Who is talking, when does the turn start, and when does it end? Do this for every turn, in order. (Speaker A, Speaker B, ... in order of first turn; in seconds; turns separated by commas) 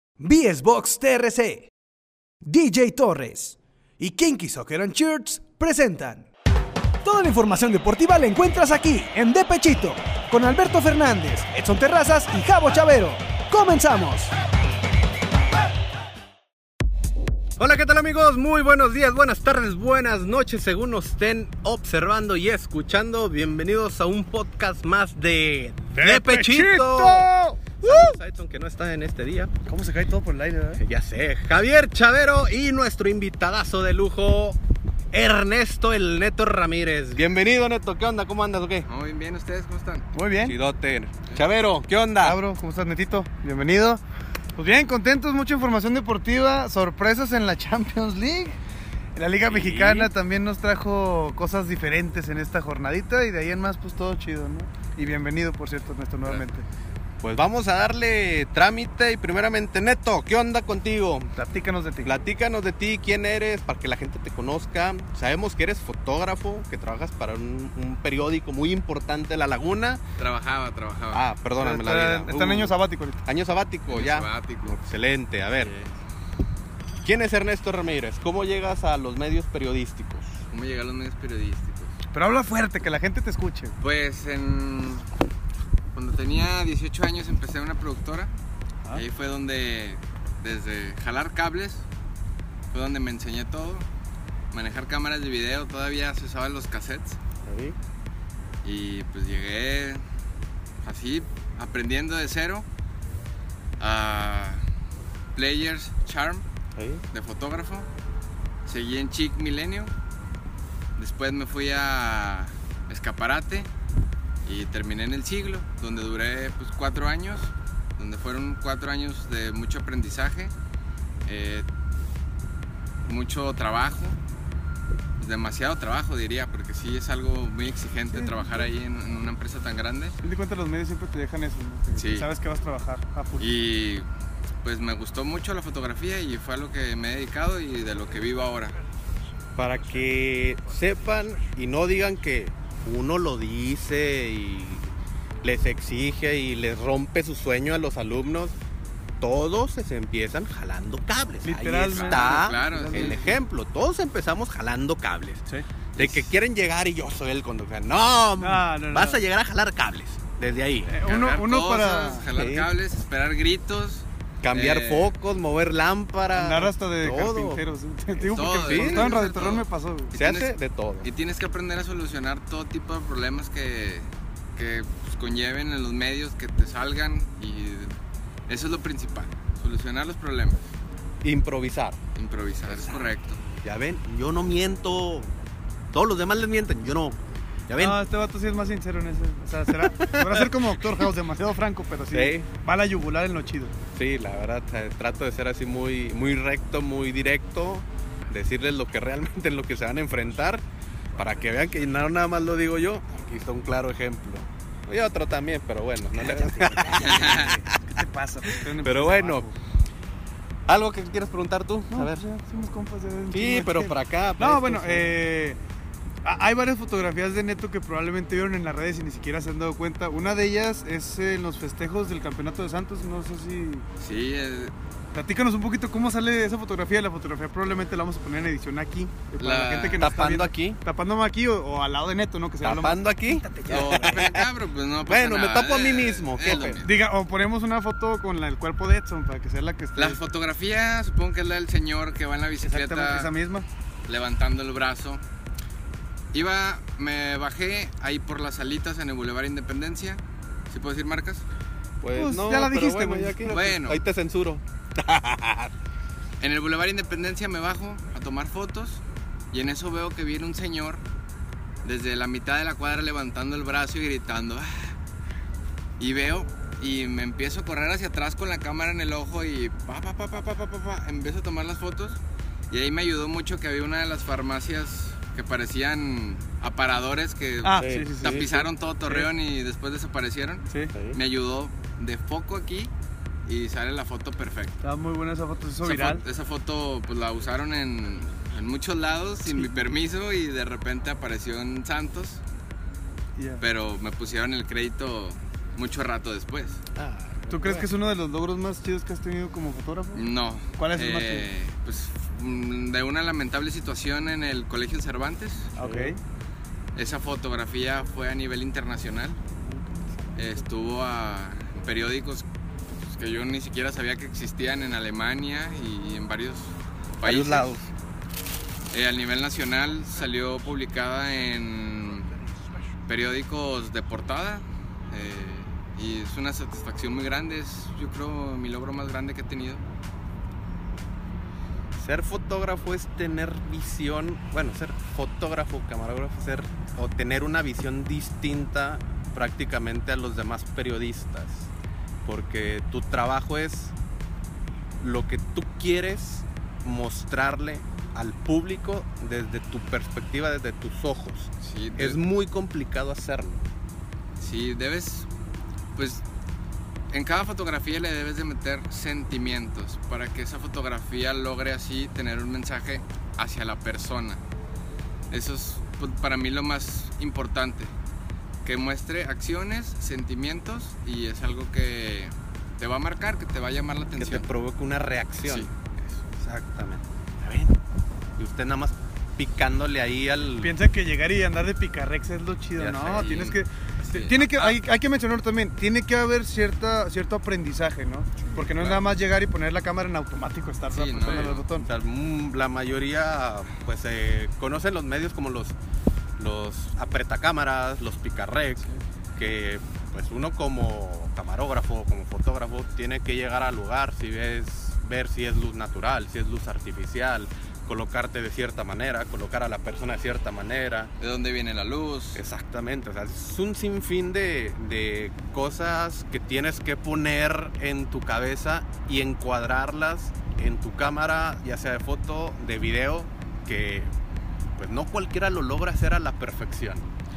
Speaker A: 0.2-1.7, Speaker A: 2.4-6.3, Speaker A: 7.0-14.3, Speaker B: 17.6-29.5, Speaker C: 25.9-28.1, Speaker C: 29.6-30.8, Speaker B: 30.8-34.6, Speaker B: 35.1-38.9, Speaker D: 38.9-40.0, Speaker C: 40.1-40.5, Speaker B: 40.4-42.4, Speaker C: 42.2-44.0, Speaker C: 44.6-48.6, Speaker C: 49.2-56.7, Speaker B: 49.5-50.1, Speaker B: 57.2-61.3, Speaker C: 61.4-62.1, Speaker B: 62.0-70.0, Speaker D: 70.2-71.2, Speaker B: 71.1-75.7, Speaker C: 71.6-73.2, Speaker D: 73.9-74.8, Speaker D: 75.5-75.9, Speaker B: 77.0-80.4, Speaker D: 80.5-82.0, Speaker C: 82.1-83.7, Speaker D: 83.8-85.0, Speaker D: 85.9-88.3, Speaker D: 88.9-91.8, Speaker D: 92.7-93.8, Speaker D: 94.5-97.2, Speaker B: 97.5-97.8, Speaker D: 98.6-100.0, Speaker D: 100.8-102.7, Speaker D: 103.8-104.6, Speaker D: 105.3-106.4, Speaker B: 106.7-107.0, Speaker D: 107.1-107.9, Speaker D: 108.7-109.9, Speaker D: 111.0-113.7, Speaker D: 114.4-120.5, Speaker D: 121.2-121.7, Speaker D: 123.0-124.2, Speaker D: 125.2-130.2, Speaker C: 128.1-128.7, Speaker C: 130.2-133.5, Speaker D: 132.0-132.3, Speaker D: 133.4-134.1, Speaker D: 134.6-138.8, Speaker B: 139.6-144.9, Speaker B: 145.4-148.6, Speaker B: 149.2-161.0, Speaker C: 151.4-153.3, Speaker D: 151.9-153.3, Speaker C: 158.4-159.2, Speaker C: 160.9-162.2, Speaker D: 161.0-165.1, Speaker B: 162.3-162.7, Speaker B: 164.4-167.6, Speaker C: 166.3-170.2, Speaker B: 168.2-169.4, Speaker D: 168.3-170.5, Speaker B: 170.1-171.1, Speaker D: 171.0-177.9, Speaker D: 178.5-180.7, Speaker B: 181.2-182.0, Speaker D: 182.1-183.4, Speaker B: 182.7-183.1, Speaker B: 183.6-185.3, Speaker B: 185.9-188.0, Speaker C: 187.8-193.7, Speaker B: 189.8-191.0, Speaker B: 192.1-192.5, Speaker B: 193.9-200.6, Speaker B: 201.2-207.8, Speaker C: 206.2-209.5, Speaker D: 206.9-207.5, Speaker B: 208.5-209.4, Speaker B: 210.7-212.2, Speaker C: 211.9-215.6, Speaker B: 213.3-215.1, Speaker C: 216.2-223.8, Speaker D: 224.0-224.7, Speaker C: 225.1-234.2, Speaker D: 229.4-230.1, Speaker B: 230.0-230.8, Speaker B: 232.6-234.5, Speaker D: 233.7-236.9, Speaker B: 235.0-236.8, Speaker C: 236.8-240.2, Speaker D: 239.9-243.3, Speaker C: 242.6-243.7, Speaker D: 244.1-245.2, Speaker D: 246.3-251.4, Speaker B: 252.0-255.7, Speaker C: 252.1-253.8, Speaker D: 253.5-254.0, Speaker D: 256.4-259.0, Speaker D: 259.5-261.0, Speaker D: 261.8-264.9, Speaker D: 266.0-282.9, Speaker C: 277.6-279.3, Speaker B: 277.8-278.5, Speaker C: 280.7-280.9, Speaker B: 280.9-281.2, Speaker D: 283.4-284.8, Speaker C: 284.8-286.2, Speaker D: 285.8-292.4, Speaker C: 289.5-289.8, Speaker C: 293.4-293.6, Speaker D: 293.6-296.8, Speaker B: 296.9-297.9, Speaker C: 297.5-300.2, Speaker D: 300.1-305.7, Speaker C: 300.8-301.5, Speaker C: 305.8-306.2, Speaker B: 305.8-306.1, Speaker D: 306.9-309.4, Speaker B: 309.7-310.5, Speaker D: 310.4-312.4, Speaker D: 313.0-317.8, Speaker B: 317.2-317.9, Speaker D: 318.9-322.3, Speaker D: 323.1-329.8, Speaker B: 331.9-341.7, Speaker B: 342.2-343.9, Speaker B: 345.0-353.6, Speaker D: 351.6-352.2, Speaker D: 354.4-355.3, Speaker D: 355.9-356.2, Speaker D: 357.1-364.4, Speaker D: 365.3-367.9, Speaker D: 368.6-374.5, Speaker B: 374.2-377.8, Speaker D: 375.4-375.7, Speaker B: 378.4-380.7, Speaker C: 380.6-391.9, Speaker B: 382.8-383.3, Speaker D: 383.1-384.8, Speaker B: 388.5-389.0, Speaker D: 390.9-391.6, Speaker B: 391.2-395.8, Speaker B: 396.4-398.8, Speaker B: 399.4-411.1, Speaker D: 411.2-412.4, Speaker B: 412.3-424.1, Speaker B: 424.8-427.1